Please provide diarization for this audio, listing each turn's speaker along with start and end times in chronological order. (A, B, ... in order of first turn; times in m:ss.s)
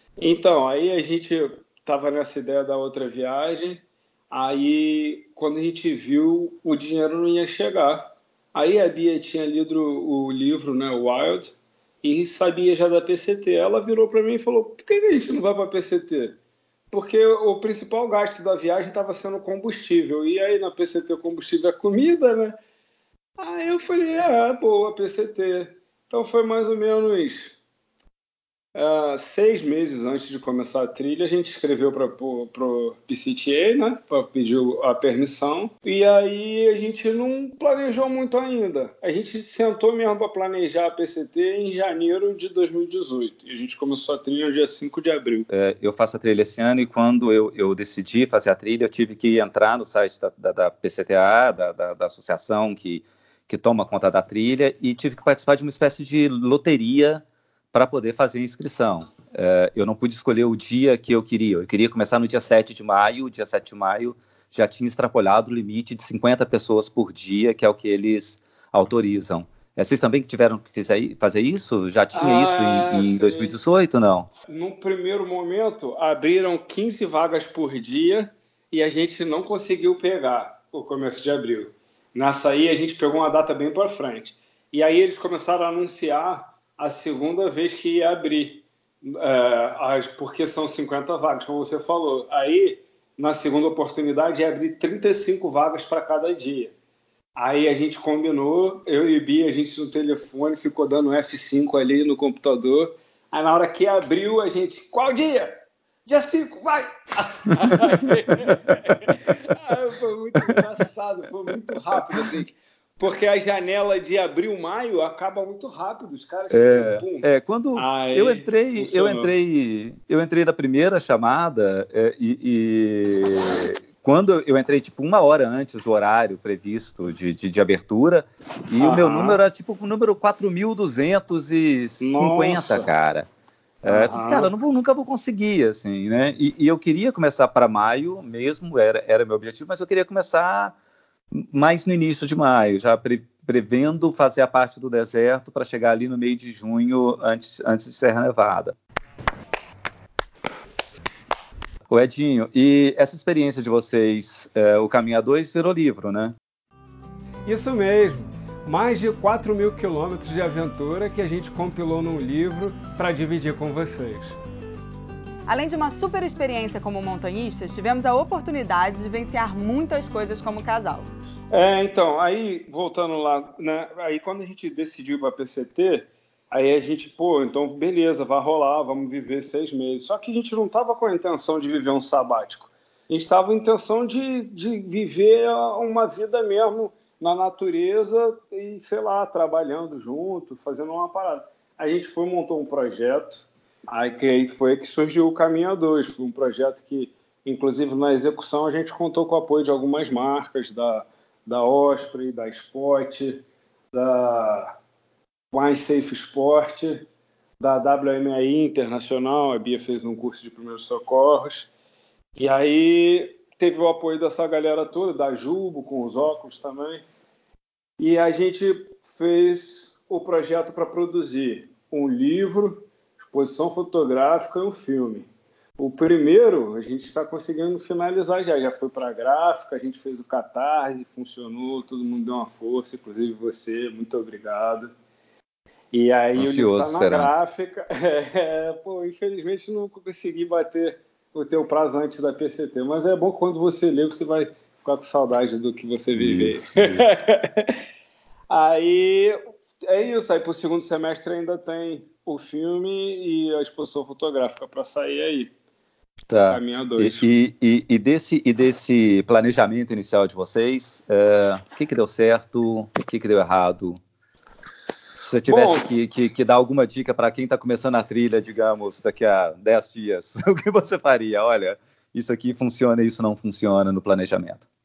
0:00.2-0:16.4 A
0:16.9-0:22.6 A
0:23.4-0:27.6 A
0:28.8-0:45.5 A
0:45.5-1:14.3 B
1:12.1-1:13.6 A
1:14.4-1:36.7 A
1:37.4-1:59.3 A
1:48.4-1:48.9 B
1:56.5-2:13.3 B
2:08.8-2:09.4 A
2:12.0-2:12.9 A
2:13.8-2:20.8 B
2:13.8-2:14.5 A
2:21.3-2:28.8 B
2:31.9-2:36.4 B
2:37.4-2:44.4 A
2:45.5-2:51.1 C
2:51.5-3:24.8 A
3:25.5-3:27.1 A
3:27.6-3:31.7 A
3:32.4-3:37.0 A
3:38.0-3:54.9 A
3:55.9-4:07.8 A
3:56.4-3:57.4 B
4:06.1-4:07.1 B
4:08.5-4:15.5 A
4:16.3-4:24.0 B
4:16.5-4:17.3 A
4:25.2-4:34.6 B
4:25.5-4:25.9 A